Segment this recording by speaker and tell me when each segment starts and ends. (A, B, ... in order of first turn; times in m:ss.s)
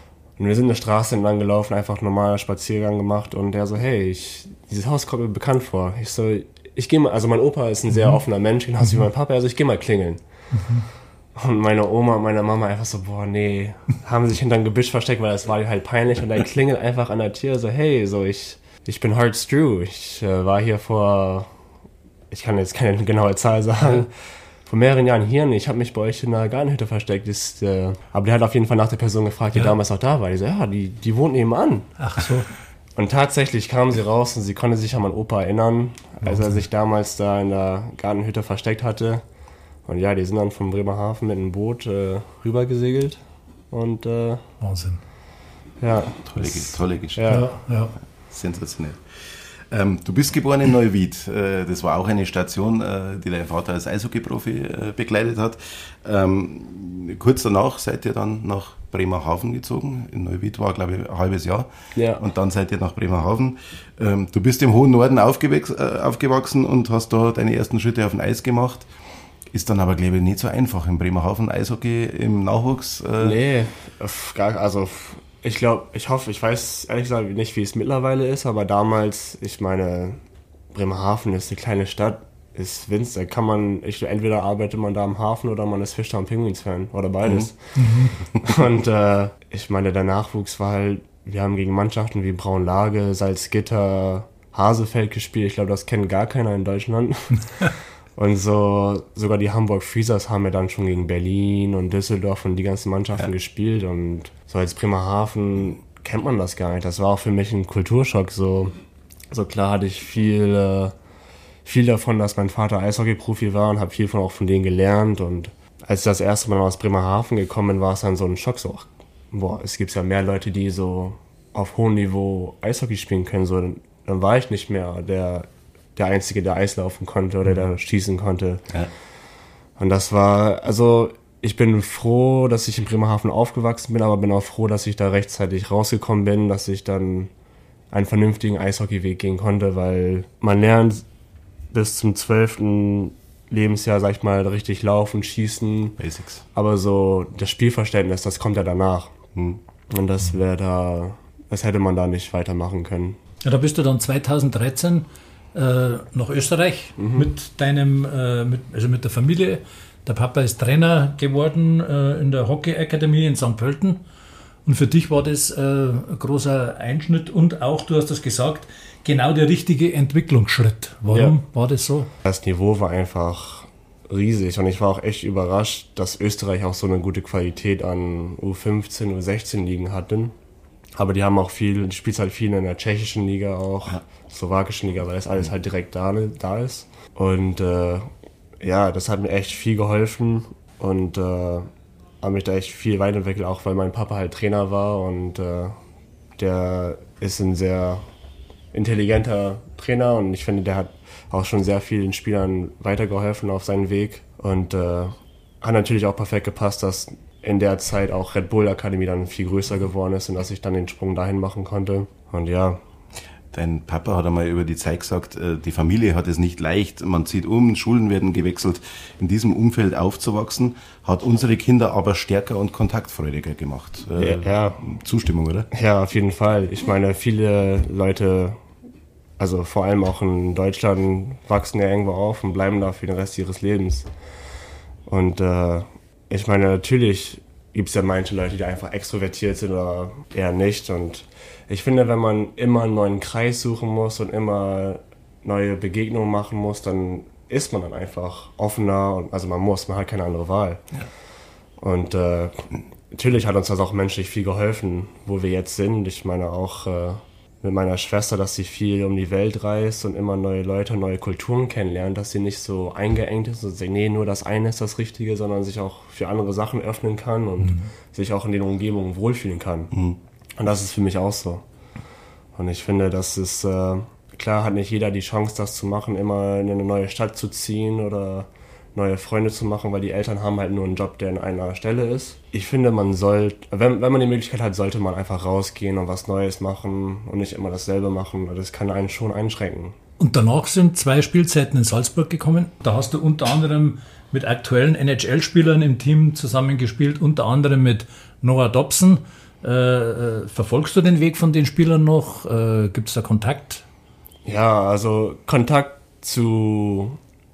0:00.4-0:10.2 A
0:10.6-0:10.8 B
0:11.4-0:21.5 A
0:22.3-0:24.1 A
0:24.6-0:31.9 A
0:32.0-0:32.5 B
0:33.0-0:39.2 A
0:36.3-0:36.6 B
0:39.8-0:44.4 A
0:44.6-0:45.0 B
0:45.8-0:47.4 A
0:46.2-0:47.5 C
0:47.2-0:47.9 B
0:48.3-1:08.9 C
1:01.9-1:02.2 A
1:09.5-1:13.4 C
1:13.2-1:20.2 A
1:20.7-1:48.7 A
1:27.8-1:28.2 B
1:49.3-1:50.9 A
1:51.6-2:08.6 A
2:09.8-2:17.3 A
2:17.9-2:21.0 A
2:21.7-2:26.0 A
2:26.0-2:26.4 C
2:26.5-2:29.1 A
2:29.9-2:33.2 A
2:33.4-2:44.0 B
2:37.0-2:37.3 A
2:44.6-2:52.1 B
2:51.1-2:51.3 A
2:52.2-3:00.3 A
3:01.0-3:08.1 A
3:08.6-3:11.7 A
3:12.2-3:15.8 A
3:16.4-3:18.0 A
3:18.7-3:32.8 A
3:33.5-3:45.7 C
3:44.2-3:44.8 A
3:45.7-3:48.6 A
3:49.4-3:54.1 A
3:55.1-4:10.8 A
4:11.8-4:29.9 A
4:29.9-4:30.2 C
4:30.6-4:31.6 A
4:32.6-4:49.9 A
4:50.2-5:03.8 B
5:04.4-5:07.2 A